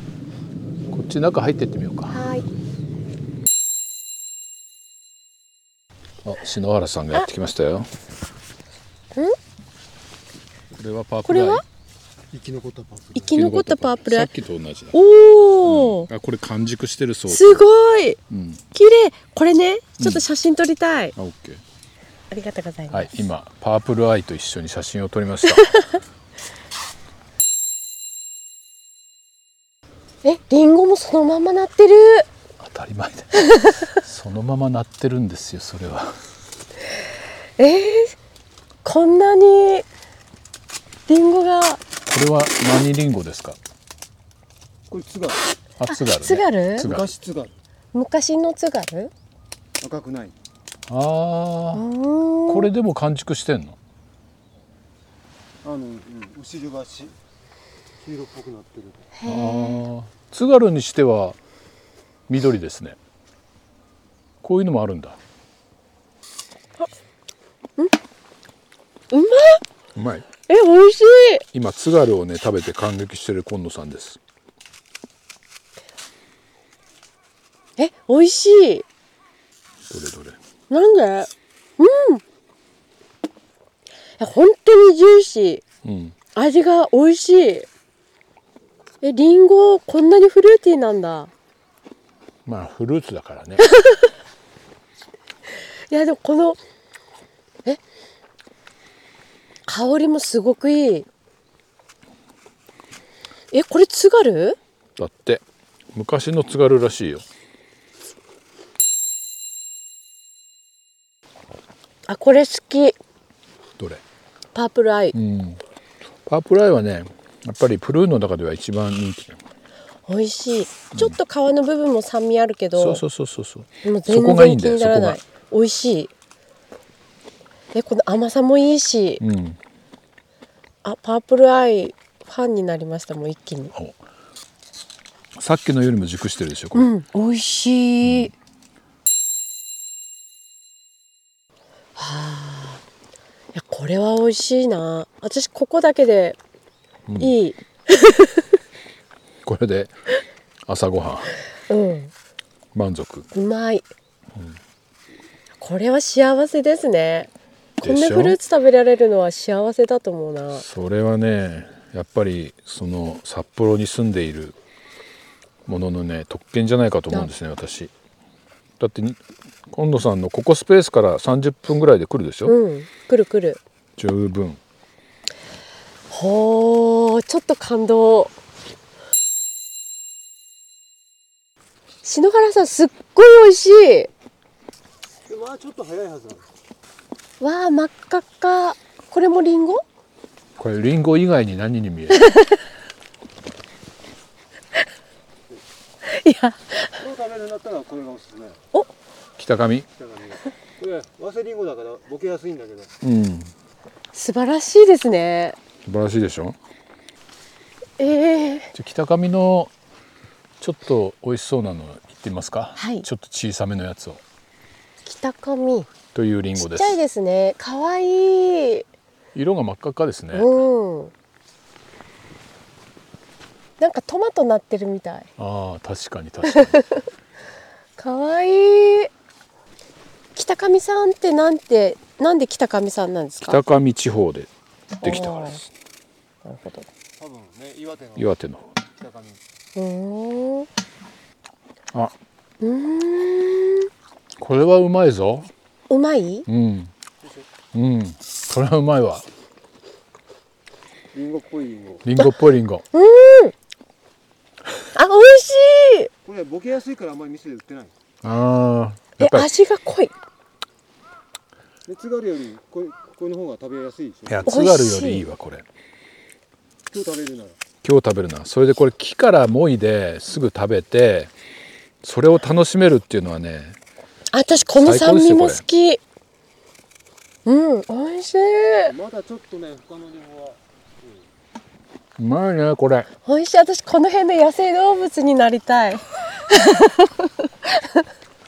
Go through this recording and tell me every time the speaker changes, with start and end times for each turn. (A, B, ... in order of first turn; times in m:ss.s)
0:00.9-0:02.2 A
0:02.1-0:02.5 B
0:06.2-0:07.9 A
0:10.7-0:11.6 A
0:11.2-0:11.6 B
0:12.3-0:13.5 C
0:13.1-0:14.3 B
0:13.3-0:15.0 A
0:14.9-0:16.1 B
0:15.6-0:17.6 A
0:17.3-0:18.2 B
0:18.3-0:18.6 A
0:18.7-0:21.1 B
0:21.2-0:21.6 A
0:22.3-0:23.1 B
0:22.9-0:25.8 A
0:25.5-0:26.0 B
0:30.2-0:32.3 B
0:32.6-0:36.2 A
0:33.3-0:34.0 B
0:37.6-0:38.2 B
0:38.8-0:39.9 B
0:41.1-0:41.8 B
0:42.1-0:43.6 A
0:44.9-0:45.4 C
0:45.8-0:47.1 A
0:45.9-0:46.9 B
0:46.8-0:47.5 C
0:47.9-0:49.1 B
0:49.8-0:50.4 C
0:50.9-0:51.8 A
0:51.7-0:52.7 B
0:52.5-0:53.8 A
0:55.6-0:57.1 C
0:58.0-0:59.1 C
0:59.2-0:59.8 B
0:59.3-1:01.4 A
1:02.3-1:03.0 A
1:04.4-1:05.2 A
1:09.1-1:09.6 B
1:09.9-1:10.3 A
1:10.5-1:11.4 B
1:11.5-1:14.2 A
1:17.8-1:18.8 B
1:19.9-1:20.4 A
1:20.7-1:22.2 B
1:24.2-1:25.6 B
1:25.8-1:26.1 A
1:26.4-1:27.7 B
1:29.0-1:31.3 B
1:32.4-1:33.6 A
1:33.6-1:34.1 B
1:35.9-1:36.6 B
1:39.7-1:41.0 B
1:43.5-1:44.6 B
1:45.0-1:45.4 A
1:45.9-1:47.2 A
1:52.1-1:53.0 B
1:54.5-1:55.2 B
1:55.1-1:55.6 A
1:56.2-1:59.4 A
2:00.1-2:03.0 B
2:02.8-2:05.2 A
2:03.8-2:06.1 B
2:07.7-2:09.2 B
2:09.2-2:09.6 A
2:10.8-2:13.7 B
2:15.4-2:16.9 A
2:16.8-2:18.3 B
2:18.0-2:18.3 A
2:22.0-2:22.8 B
2:23.5-2:26.4 B
2:27.1-2:27.3 A
2:27.2-2:28.5 B
2:29.4-2:30.0 A
2:30.6-2:31.3 A
2:31.7-2:32.1 B
2:32.7-2:33.3 A
2:33.3-2:33.9 B
2:35.6-2:40.6 B
2:37.8-2:38.4 A
2:40.5-2:44.6 A
2:45.6-2:47.9 A
2:48.8-2:52.5 A
2:52.4-2:53.6 B
2:54.0-2:54.6 A
2:56.1-2:58.3 B
3:02.0-3:04.1 B
3:05.3-3:06.5 C
3:07.4-3:09.8 B
3:10.6-3:12.2 A
3:12.1-3:12.6 B
3:16.0-3:17.0 B
3:17.0-3:18.6 C
3:19.4-3:19.9 A
3:20.0-3:22.9 C
3:23.0-3:23.5 A
3:24.1-3:25.6 B
3:25.9-3:26.6 A
3:28.0-3:28.7 B
3:28.7-3:29.7 A
3:30.6-3:34.2 A
3:32.8-3:33.0 B
3:35.0-3:35.9 B
3:36.1-3:37.0 A
3:36.6-3:38.9 B
3:39.3-3:40.5 A
3:40.3-3:41.1 B
3:43.8-3:45.3 B
3:45.4-3:46.8 A
3:46.4-3:47.0 B
3:48.0-3:49.1 B
3:50.4-3:53.6 B
3:53.5-3:54.5 A
3:55.0-3:55.6 B
3:55.0-3:55.7 A
3:56.4-3:56.9 B
3:57.2-3:58.3 C
3:58.2-3:58.7 A
3:59.0-3:59.4 C
3:59.8-4:00.7 B
4:02.6-4:03.9 B
4:04.4-4:05.5 A
4:05.9-4:06.5 B
4:06.5-4:06.9 A
4:07.2-4:07.4 C
4:07.7-4:09.2 A
4:11.1-4:12.0 C
4:12.0-4:12.8 A
4:12.9-4:13.5 B
4:14.9-4:16.1 B
4:16.2-4:17.9 C
4:18.2-4:19.5 A
4:19.2-4:20.1 B
4:21.9-4:24.5 C
4:24.3-4:25.6 A
4:24.5-4:25.2 B
4:26.9-4:27.6 C
4:27.8-4:31.3 A
4:32.0-4:33.8 A
4:34.3-4:36.0 B
4:34.7-4:35.6 A
4:37.4-4:38.9 B
4:38.9-4:41.2 C
4:42.2-4:43.1 A
4:43.2-4:48.0 B